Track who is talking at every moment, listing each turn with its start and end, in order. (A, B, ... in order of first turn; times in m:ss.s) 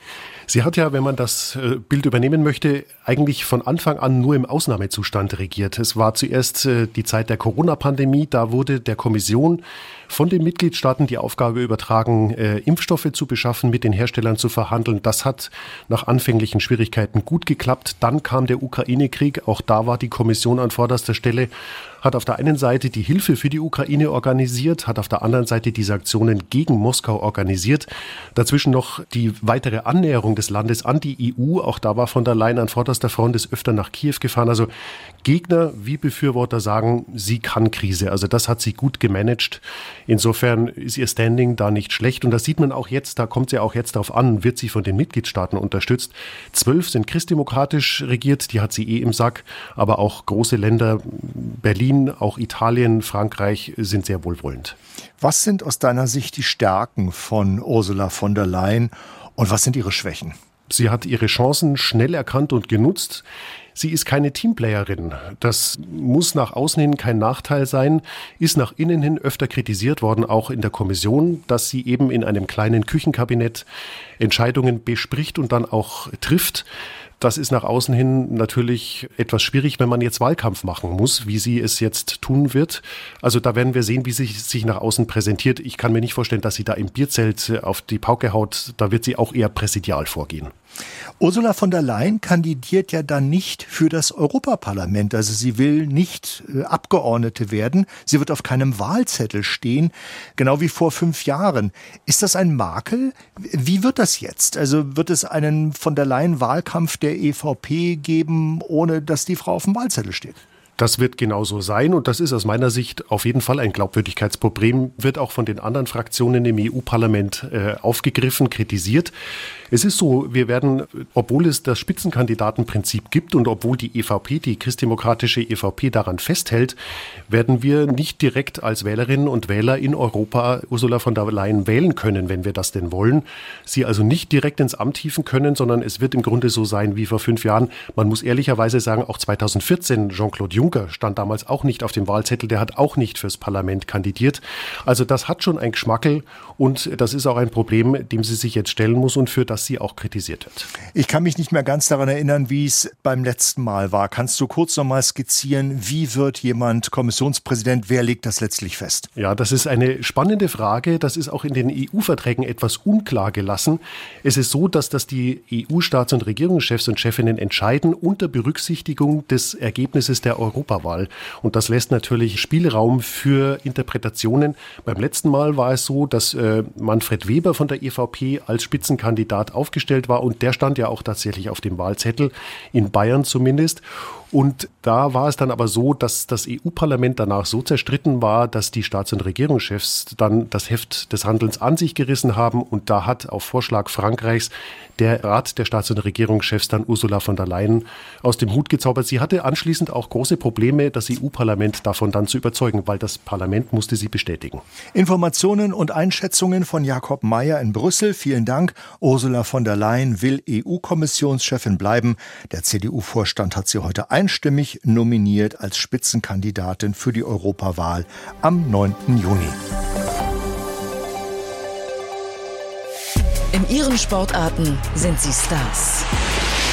0:00.5-0:21.5 A
0:22.0-0:34.7 A
0:35.2-0:54.8 A
0:55.2-1:00.4 B
1:00.7-1:03.2 A
1:03.8-1:13.7 A
1:14.2-1:16.7 A
1:17.2-1:30.5 A
1:31.2-1:50.4 B
1:50.8-1:59.1 A
1:59.7-2:06.8 A
2:07.3-2:30.7 A
2:30.9-2:39.1 B
2:39.2-3:24.6 A
3:24.9-3:39.6 B
3:43.5-3:46.0 C